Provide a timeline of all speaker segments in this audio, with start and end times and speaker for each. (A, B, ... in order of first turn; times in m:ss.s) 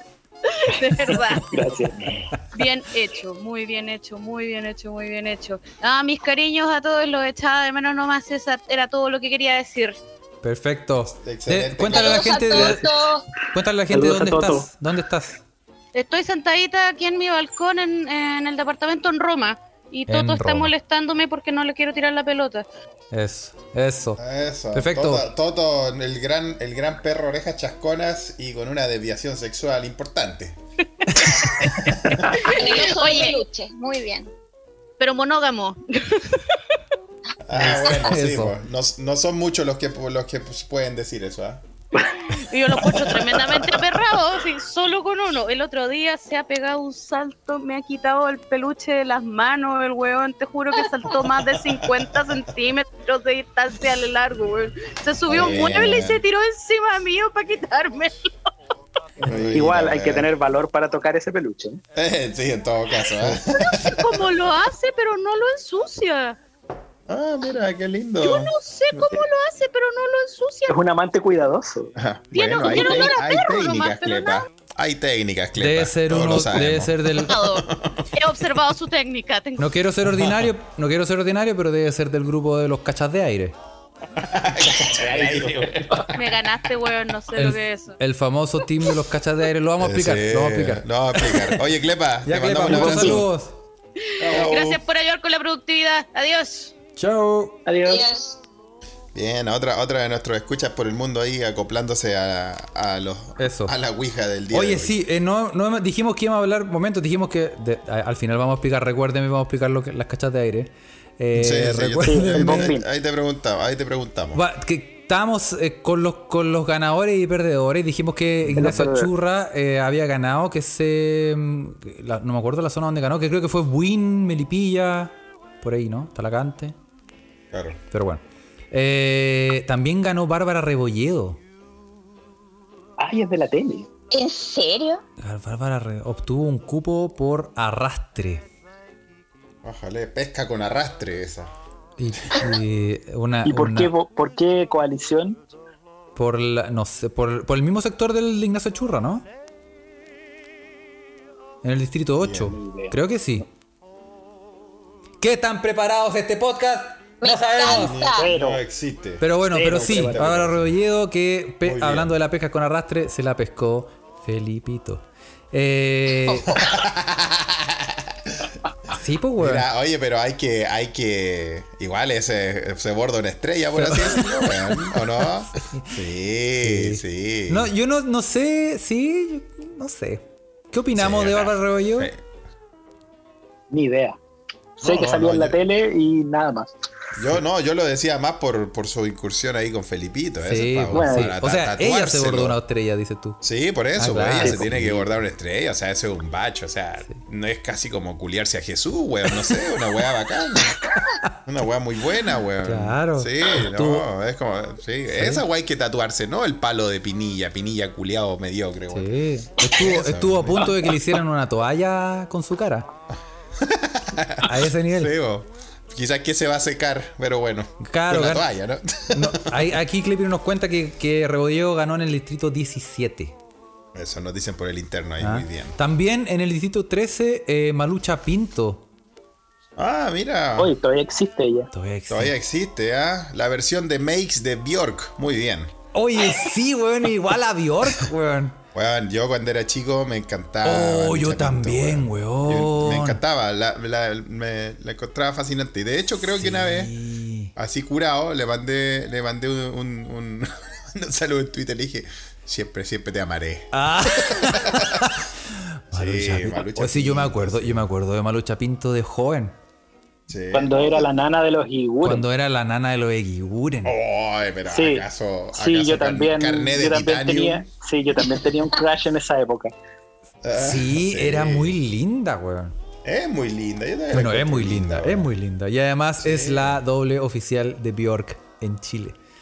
0:00.4-0:01.6 A
0:01.4-0:02.2 B
0:02.5-0:10.0 A
0:10.4-0:12.9 C
0:11.1-0:12.8 D
0:11.9-0:13.3 E
0:13.5-0:15.4 C
0:13.9-0:14.7 B
0:15.9-0:22.7 A
0:20.1-0:20.7 C
0:23.1-0:24.2 C
0:24.2-0:30.6 D
0:24.7-0:25.3 C
0:31.1-0:31.9 C
0:31.2-0:33.4 A
0:31.8-0:32.4 D
0:32.5-0:34.3 E
0:35.0-0:36.8 A
0:37.5-0:41.6 D
0:37.5-0:38.6 C
0:42.3-0:58.3 A
0:51.6-0:52.1 D
0:55.3-0:56.2 D
0:59.2-1:01.8 B
0:59.3-1:00.3 D
1:02.0-1:04.2 D
1:03.5-1:06.4 A
1:07.1-1:08.5 D
1:08.2-1:10.8 A
1:10.7-1:11.9 B
1:12.0-1:18.0 D
1:12.3-1:14.5 A
1:15.6-1:17.4 C
1:17.2-1:19.7 A
1:19.6-1:23.6 C
1:20.1-1:20.5 D
1:24.2-1:26.4 D
1:24.7-1:26.2 B
1:26.1-1:28.0 A
1:27.4-1:31.6 C
1:29.8-1:33.3 D
1:32.3-1:33.6 C
1:32.7-1:33.2 B
1:34.1-1:36.7 A
1:34.2-1:34.8 D
1:37.0-1:37.6 C
1:37.7-1:38.1 B
1:37.8-1:38.4 E
1:39.1-1:45.0 D
1:43.4-1:43.7 C
1:44.5-1:52.7 C
1:51.3-1:54.4 D
1:52.0-1:52.9 B
1:54.3-2:06.8 C
1:58.5-1:59.1 B
2:07.5-2:07.8 D
2:07.9-2:11.4 C
2:13.0-2:13.9 B
2:14.1-2:15.0 E
2:15.2-2:18.5 C
2:19.6-2:21.5 D
2:22.0-2:23.9 C
2:23.4-2:25.4 B
2:26.2-2:29.3 C
2:31.6-2:33.5 C
2:32.2-2:32.5 D
2:32.4-2:33.4 B
2:35.2-2:38.0 C
2:37.2-2:38.3 E
2:37.6-2:40.8 D
2:38.2-2:38.6 B
2:39.2-2:46.6 C
2:39.5-2:40.3 B
2:41.6-2:42.2 D
2:46.5-2:48.5 D
2:48.9-2:49.7 C
2:49.4-2:57.7 D
2:53.7-2:56.0 C
2:56.6-3:02.1 C
3:00.9-3:02.3 D
3:03.7-3:04.2 B
3:04.8-3:06.7 B
3:04.8-3:05.6 D
3:07.2-3:12.6 D
3:10.4-3:13.4 C
3:10.9-3:11.3 B
3:13.4-3:20.8 D
3:14.0-3:15.2 C
3:14.4-3:14.7 B
3:21.1-3:21.4 C
3:21.5-3:29.1 D
3:22.6-3:24.1 C
3:25.1-3:25.4 C
3:28.9-3:32.9 C
3:29.6-3:31.0 D
3:33.6-3:39.8 D
3:34.4-3:35.1 C
3:37.8-3:38.5 C
3:39.1-3:43.4 C
3:43.9-3:45.8 D
3:45.2-3:48.9 C
3:49.8-3:50.8 D
3:50.6-3:51.7 B
3:51.7-3:52.3 C
3:52.1-3:55.7 D
3:55.9-3:58.6 C
3:58.7-4:06.9 D
4:00.6-4:03.2 C
4:06.3-4:07.5 C
4:07.6-4:15.1 D
4:13.7-4:19.6 C
4:15.9-4:17.9 D
4:20.3-4:21.1 D
4:20.5-4:22.2 B
4:22.0-4:24.0 C
4:23.8-4:27.7 D
4:24.7-4:25.0 B
4:25.6-4:29.7 B
4:30.4-4:31.8 D
4:30.5-4:32.8 C
4:33.0-4:35.3 D
4:34.1-4:39.2 C
4:36.2-4:36.8 D